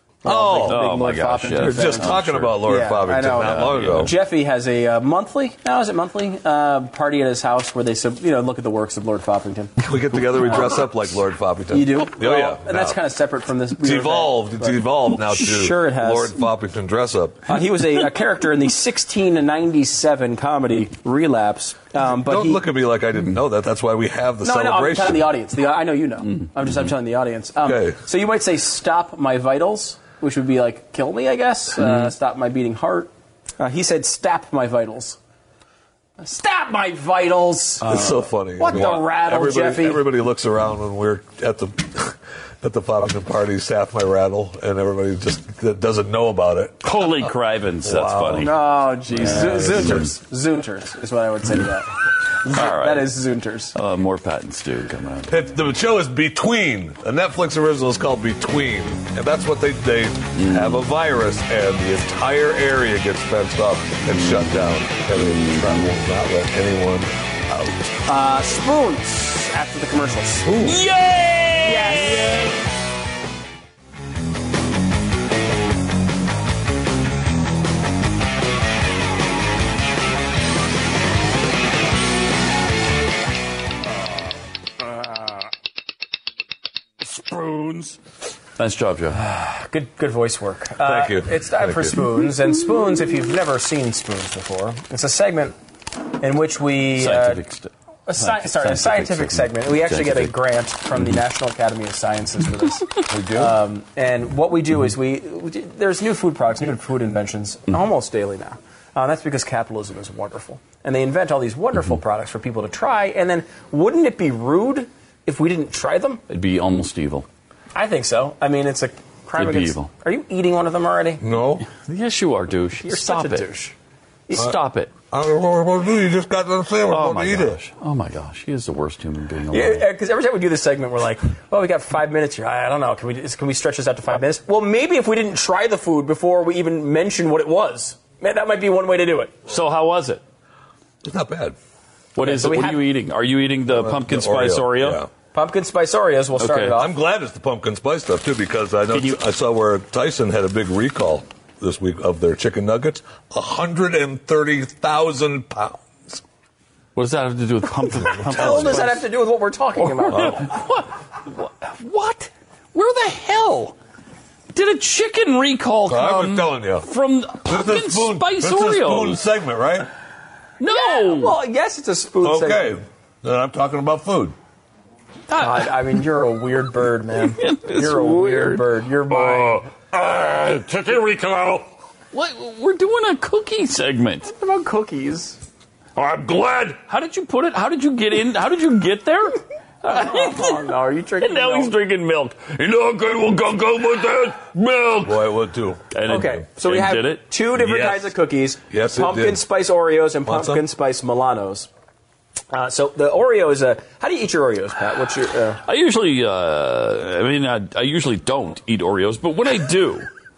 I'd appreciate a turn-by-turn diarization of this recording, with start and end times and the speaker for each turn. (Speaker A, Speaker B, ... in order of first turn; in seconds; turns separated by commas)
Speaker A: 0.2-0.9, Speaker B: 0.2-9.7, Speaker C: 0.6-2.6, Speaker A: 1.5-4.1, Speaker C: 3.3-4.2, Speaker A: 9.8-13.0, Speaker B: 11.7-16.4, Speaker A: 13.8-17.6, Speaker B: 17.5-22.6, Speaker A: 22.0-25.3, Speaker B: 24.4-35.2, Speaker A: 27.6-28.0, Speaker B: 36.2-40.0, Speaker A: 37.8-47.1, Speaker C: 38.7-39.0, Speaker C: 46.8-50.1, Speaker A: 47.8-48.5, Speaker B: 48.4-53.7, Speaker A: 49.1-50.0, Speaker C: 52.5-53.1, Speaker C: 53.7-55.4, Speaker A: 55.3-67.9, Speaker C: 60.4-60.8, Speaker C: 64.1-65.9, Speaker B: 68.1-70.5, Speaker A: 70.4-70.8, Speaker C: 70.6-72.5, Speaker B: 71.6-72.4, Speaker C: 87.0-88.0, Speaker C: 88.6-89.2, Speaker B: 89.2-95.5, Speaker A: 90.8-92.0, Speaker B: 96.2-97.4, Speaker C: 96.9-100.3, Speaker B: 98.1-116.2, Speaker A: 103.1-103.5, Speaker C: 116.3-117.3, Speaker B: 117.7-121.2, Speaker C: 119.4-119.9, Speaker A: 121.2-121.6, Speaker C: 121.6-123.5, Speaker B: 122.8-123.7, Speaker C: 124.3-124.9, Speaker A: 125.1-127.6, Speaker C: 126.9-129.8, Speaker B: 129.5-139.5, Speaker C: 139.5-140.2, Speaker A: 141.0-141.6, Speaker C: 142.1-145.0, Speaker B: 142.2-142.9, Speaker A: 143.7-145.1, Speaker B: 145.3-146.9, Speaker C: 146.4-146.8, Speaker A: 146.7-156.2, Speaker C: 156.9-159.0, Speaker B: 158.2-160.4, Speaker A: 158.3-158.9, Speaker C: 159.8-163.7, Speaker A: 160.1-160.4, Speaker C: 164.5-169.2, Speaker A: 165.9-166.9, Speaker A: 167.4-169.9, Speaker C: 170.6-171.4, Speaker B: 170.7-172.7, Speaker A: 172.2-174.3, Speaker B: 175.3-179.7, Speaker C: 177.4-184.3, Speaker B: 184.3-185.4, Speaker C: 185.9-195.3, Speaker B: 189.8-191.7, Speaker A: 195.0-195.9, Speaker C: 195.9-197.2, Speaker B: 196.1-201.7, Speaker A: 197.6-198.1, Speaker A: 198.7-199.4, Speaker A: 200.2-200.6, Speaker B: 202.5-205.6, Speaker C: 205.6-210.1